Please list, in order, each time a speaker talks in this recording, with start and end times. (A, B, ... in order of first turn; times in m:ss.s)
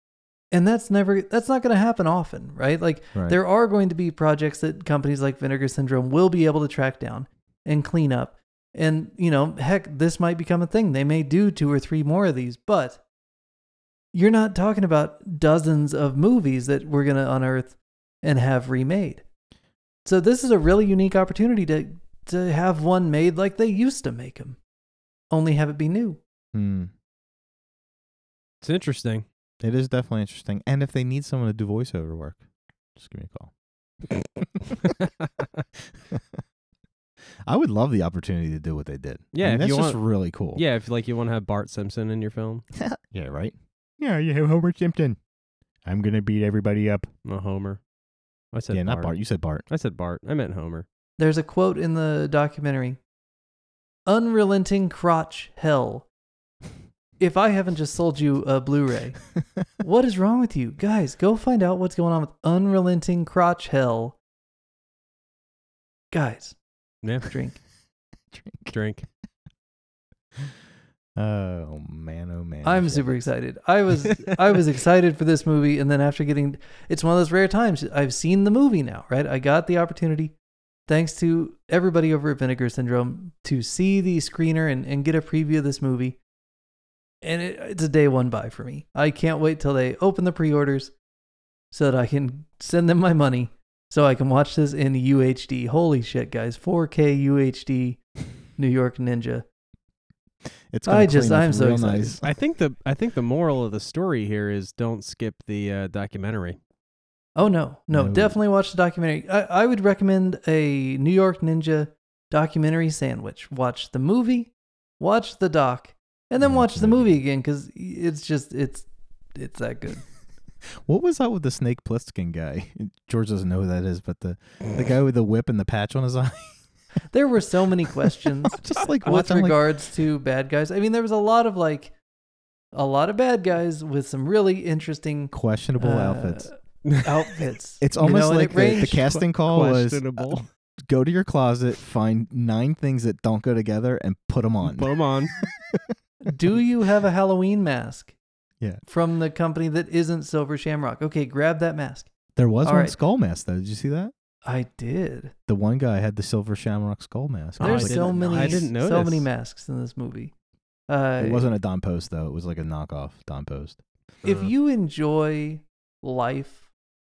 0:00.5-0:13.0 A
0:14.1-0:19.2 A
0:20.0-0:24.6 A
0:25.3-0:26.2 A
0:26.5-0:26.9 B
0:28.6-0:29.2 C
0:29.6-0:33.5 B
0:37.4-0:40.6 B
0:39.3-0:42.6 C
0:42.7-0:45.2 B
0:45.8-0:47.1 B
0:47.2-0:47.8 C
0:48.5-0:50.8 C
0:48.7-0:49.6 B
0:51.2-0:53.0 A
0:54.1-0:56.1 A
0:57.2-1:04.2 A
1:06.1-1:06.6 A
1:07.0-1:07.3 C
1:07.2-1:07.6 A
1:08.3-1:08.7 B
1:08.7-1:09.0 C
1:11.2-1:13.3 B
1:12.6-1:20.4 A
1:20.9-1:26.2 A
1:27.2-1:30.9 A
1:31.7-1:39.5 A
1:40.7-1:42.3 B
1:40.8-1:42.2 A
1:42.2-1:46.6 C
1:47.4-2:00.0 A
1:47.9-1:48.4 B
1:56.4-1:57.2 B
2:00.8-2:06.6 B
2:07.1-2:11.9 A
2:08.2-2:09.6 B
2:12.7-2:19.1 A
2:15.3-2:16.5 B
2:17.8-2:25.9 B
2:18.8-2:20.4 C
2:24.6-2:25.4 C
2:26.2-2:28.2 A
2:28.8-2:32.1 A
2:32.4-2:34.1 B
2:32.6-2:33.0 A
2:34.4-2:35.3 A
2:35.5-2:38.7 B
2:37.6-2:39.3 C
2:37.6-2:40.3 A
2:40.9-2:41.4 A
2:41.2-2:43.8 B
2:44.2-2:46.7 A